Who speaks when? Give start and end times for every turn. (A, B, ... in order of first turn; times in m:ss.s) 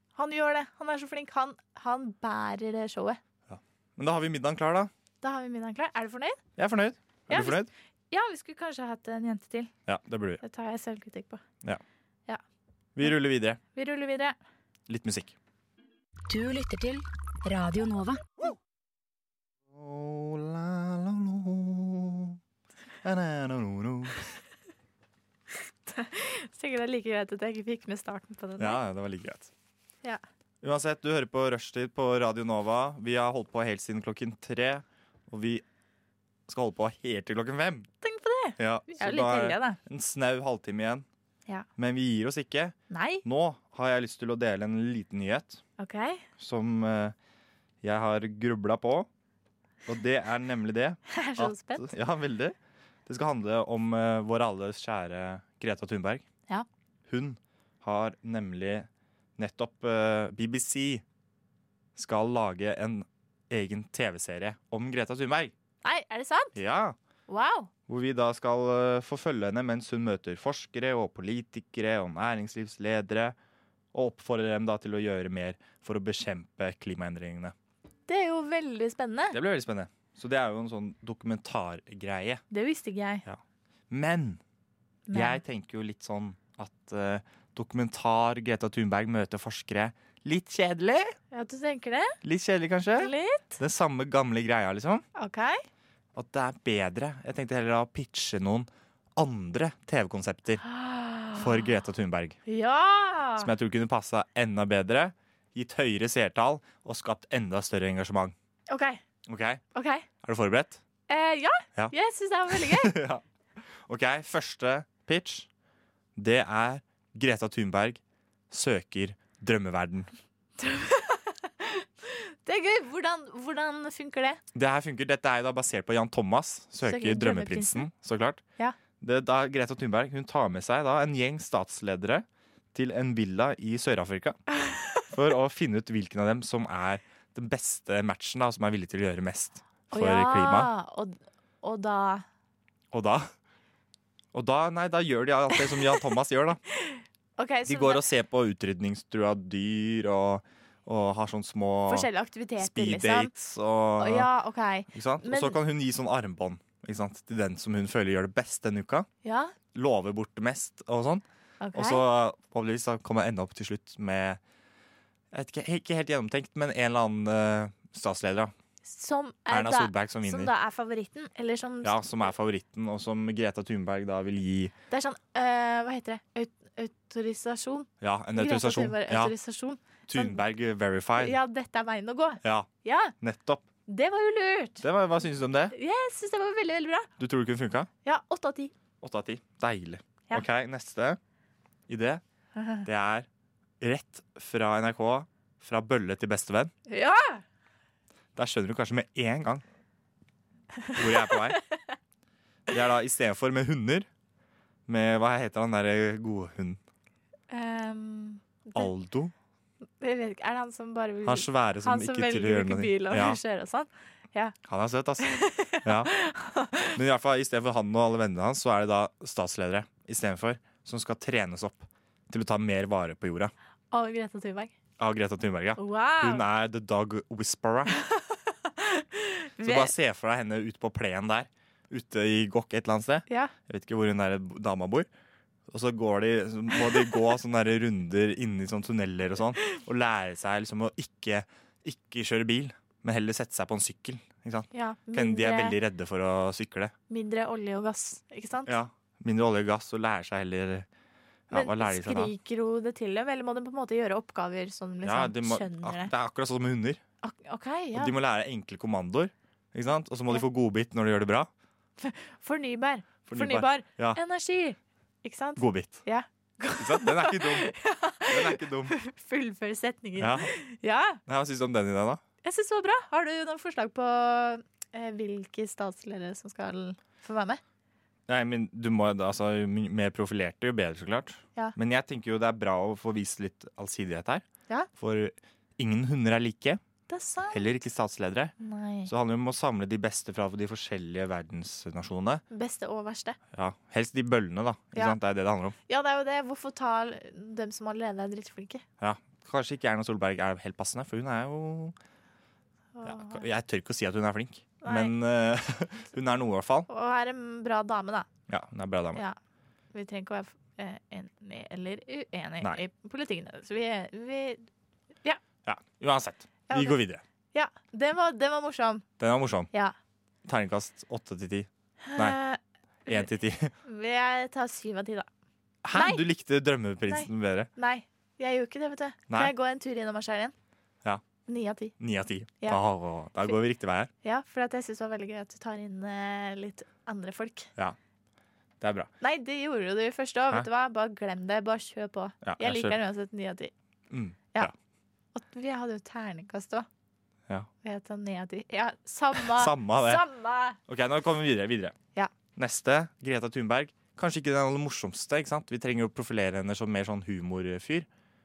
0:00.2-0:03.2 A
0:03.5-0:04.9 B
0:05.2-0:06.4 A
0:06.6-0:07.7 B
0:07.3-0:09.7 A
0:09.9-0:10.4 B
0:10.4-0:11.4 A
0:13.0-0:13.6 B
0:13.7-0:14.4 A
0:14.9-0:15.4 B
0:16.3-0:18.2 C
0:19.7-0:22.4 B
0:23.0-0:24.4 B
0:25.9-0:28.8 A
0:28.6-0:29.5 B
0:30.6-0:35.6 B
0:36.5-0:37.9 B
0:38.0-0:39.8 A
0:38.6-0:41.1 B
0:41.8-0:45.6 B
0:42.9-0:43.2 A
0:45.8-0:46.2 A
0:46.4-0:47.2 B
0:47.8-0:49.1 B
0:49.9-0:56.2 B
0:51.1-0:51.9 A
0:57.1-1:01.0 B
1:02.0-1:05.5 B
1:05.8-1:06.6 A
1:06.6-1:07.0 B
1:07.3-1:07.7 A
1:07.9-1:13.4 B
1:13.9-1:17.6 B
1:18.1-1:19.4 A
1:19.3-1:22.4 B
1:22.5-1:23.2 A
1:23.3-1:24.4 B
1:25.1-1:25.4 A
1:25.1-1:31.2 B
1:31.3-1:32.2 A
1:32.2-1:35.0 B
1:33.0-1:33.6 A
1:35.2-1:35.6 A
1:36.2-1:40.6 B
1:40.6-1:41.6 A
1:41.3-1:42.4 B
1:42.5-1:43.5 A
1:43.4-1:48.4 B
1:48.7-1:49.0 A
1:49.3-1:49.6 B
1:49.7-1:50.1 A
1:50.2-1:50.8 B
1:51.1-1:53.0 A
1:52.5-1:53.2 B
1:53.9-1:55.5 B
1:56.2-2:00.1 B
2:00.6-2:04.4 A
2:04.5-2:08.4 B
2:06.8-2:07.9 A
2:09.0-2:14.4 B
2:15.1-2:20.7 B
2:19.9-2:22.2 A
2:22.9-2:23.3 B
2:24.3-2:26.6 B
2:25.6-2:26.0 A
2:26.7-2:28.0 A
2:27.7-2:34.3 B
2:31.9-2:33.3 A
2:34.0-2:35.6 A
2:34.9-2:39.1 B
2:39.2-2:39.6 A
2:39.7-2:44.4 B
2:41.6-2:42.0 A
2:45.3-2:48.5 B
2:48.8-2:52.0 A
2:49.5-2:50.5 B
2:51.8-2:54.7 B
2:54.9-3:00.4 A
2:58.0-2:59.3 B
3:00.1-3:01.4 B
3:01.2-3:03.1 A
3:02.4-3:02.7 B
3:03.2-3:03.6 B
3:03.9-3:04.8 A
3:04.8-3:05.8 B
3:05.7-3:07.1 A
3:07.2-3:07.9 B
3:08.0-3:08.7 A
3:09.0-3:11.2 B
3:11.9-3:12.2 B
3:12.6-3:12.9 A
3:12.8-3:13.3 B
3:13.8-3:16.7 B
3:16.9-3:17.4 A
3:18.4-3:19.6 B
3:20.9-3:21.8 A
3:21.0-3:21.6 B
3:22.7-3:24.1 B
3:24.9-3:26.8 B
3:27.5-3:28.9 A
3:28.8-3:29.3 B
3:30.0-3:34.6 A
3:31.2-3:33.4 B
3:34.6-3:35.3 B
3:35.2-3:37.0 A
3:35.8-3:36.1 B
3:37.0-3:43.5 B
3:43.9-3:44.7 A
3:45.0-3:48.0 B
3:45.8-3:46.4 A
3:47.9-3:49.9 A
3:49.6-3:55.1 B
3:53.3-3:53.5 A
3:55.7-4:06.9 B
4:04.7-4:05.8 A
4:07.1-4:08.7 A
4:08.7-4:10.9 B
4:11.5-4:12.3 B
4:11.5-4:16.1 A
4:15.0-4:17.0 B
4:17.2-4:18.1 A
4:18.0-4:21.5 B
4:22.0-4:31.2 A
4:23.3-4:24.2 B
4:25.6-4:26.0 B
4:26.8-4:27.7 B
4:28.3-4:29.0 B
4:30.2-4:30.5 B
4:31.3-4:32.2 B
4:32.4-4:37.6 A
4:38.3-4:46.8 B
4:47.1-4:47.6 A
4:47.5-4:48.5 B
4:48.6-4:49.1 A
4:49.1-4:52.4 B
4:52.5-4:53.4 A
4:53.5-4:55.8 B
4:55.9-4:58.8 A
4:59.0-5:02.0 B
5:03.0-5:03.4 A
5:03.0-5:06.9 B
5:04.8-5:05.1 A
5:06.9-5:08.3 A
5:08.5-5:09.2 B
5:09.9-5:14.7 A
5:15.6-5:17.2 B
5:16.7-5:17.0 A
5:17.5-5:19.0 A
5:19.2-5:19.7 B
5:20.4-5:22.4 B
5:22.0-5:23.3 A
5:23.1-5:23.7 B
5:23.8-5:25.3 A
5:25.8-5:27.7 B
5:25.9-5:26.2 A
5:27.1-5:30.5 A
5:31.5-5:31.9 A
5:32.0-5:34.1 B
5:34.2-5:37.7 A
5:38.8-5:39.1 B
5:39.2-5:43.7 A
5:42.4-5:43.0 B
5:44.1-5:44.7 B
5:45.4-5:46.9 A
5:47.8-5:50.8 A
5:49.4-5:50.2 B
5:50.9-5:52.0 B
5:52.6-5:58.1 B